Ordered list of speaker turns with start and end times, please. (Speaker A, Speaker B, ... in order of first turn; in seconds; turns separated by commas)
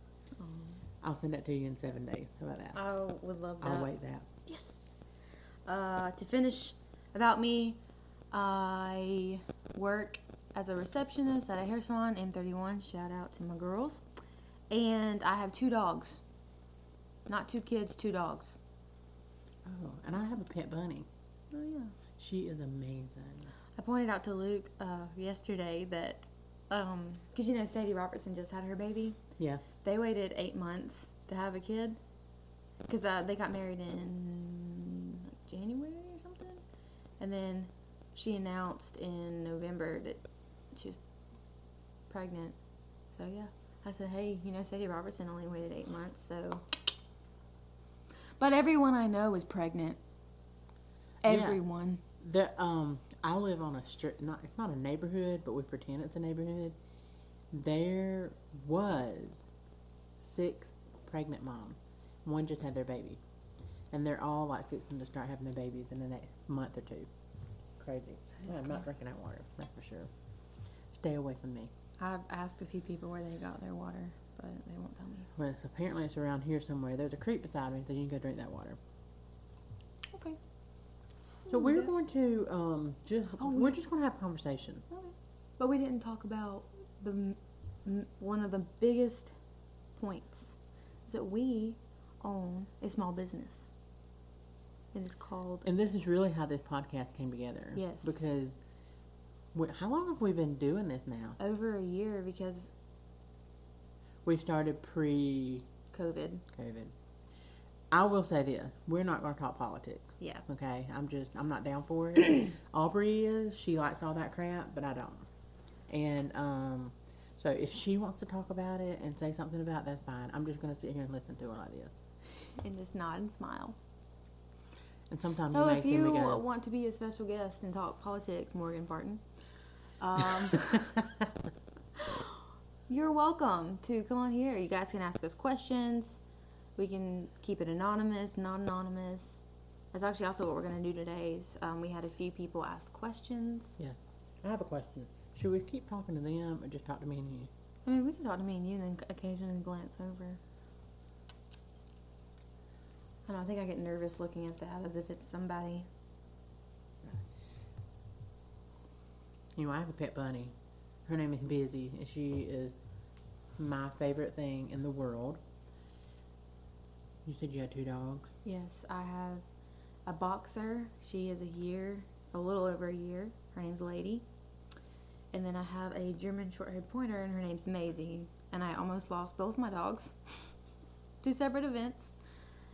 Speaker A: 0.4-0.8, Speaker B: 1.0-2.8, Speaker A: 2.7-3.9, Speaker B: 3.6-4.3, Speaker A: 4.4-5.0, Speaker A: 5.7-7.8, Speaker A: 8.3-14.0, Speaker A: 14.7-16.2, Speaker A: 17.3-18.6, Speaker B: 19.6-21.1, Speaker A: 21.5-21.9, Speaker B: 22.2-23.5, Speaker A: 23.8-29.2, Speaker B: 29.4-29.6, Speaker A: 29.8-32.0, Speaker A: 32.9-36.6, Speaker A: 37.2-41.0, Speaker A: 42.1-42.6, Speaker A: 43.1-46.6, Speaker A: 48.4-50.0, Speaker B: 51.2-51.6, Speaker A: 51.2-52.0, Speaker B: 52.2-56.8, Speaker B: 57.5-59.4, Speaker B: 60.2-63.2, Speaker B: 63.9-67.1, Speaker B: 67.8-70.1, Speaker B: 70.9-71.7, Speaker A: 72.0-75.3, Speaker B: 75.3-78.8, Speaker A: 80.1-80.4, Speaker A: 81.5-81.9, Speaker B: 81.5-84.8, Speaker A: 83.4-83.7, Speaker A: 84.9-89.3, Speaker A: 90.0-90.5, Speaker A: 91.1-93.7, Speaker A: 94.9-95.7, Speaker B: 95.7-98.5, Speaker A: 97.8-98.2, Speaker B: 99.5-101.4, Speaker A: 101.4-102.7, Speaker B: 104.2-105.7, Speaker A: 105.9-106.4, Speaker B: 106.5-106.9, Speaker B: 107.9-115.3, Speaker A: 110.2-110.4, Speaker B: 115.9-121.9, Speaker A: 122.6-123.8, Speaker B: 125.1-126.4, Speaker A: 125.5-129.2, Speaker A: 130.0-130.9, Speaker B: 130.5-131.0, Speaker A: 131.9-132.3, Speaker A: 132.9-136.2, Speaker A: 136.8-139.4, Speaker A: 139.9-143.7, Speaker B: 143.8-147.5, Speaker A: 147.8-150.4, Speaker A: 153.3-155.9, Speaker B: 159.5-160.5, Speaker B: 161.0-162.7, Speaker B: 163.6-165.4, Speaker B: 167.2-168.3, Speaker A: 168.4-169.4, Speaker A: 170.1-174.2, Speaker A: 175.3-180.5, Speaker A: 181.2-182.1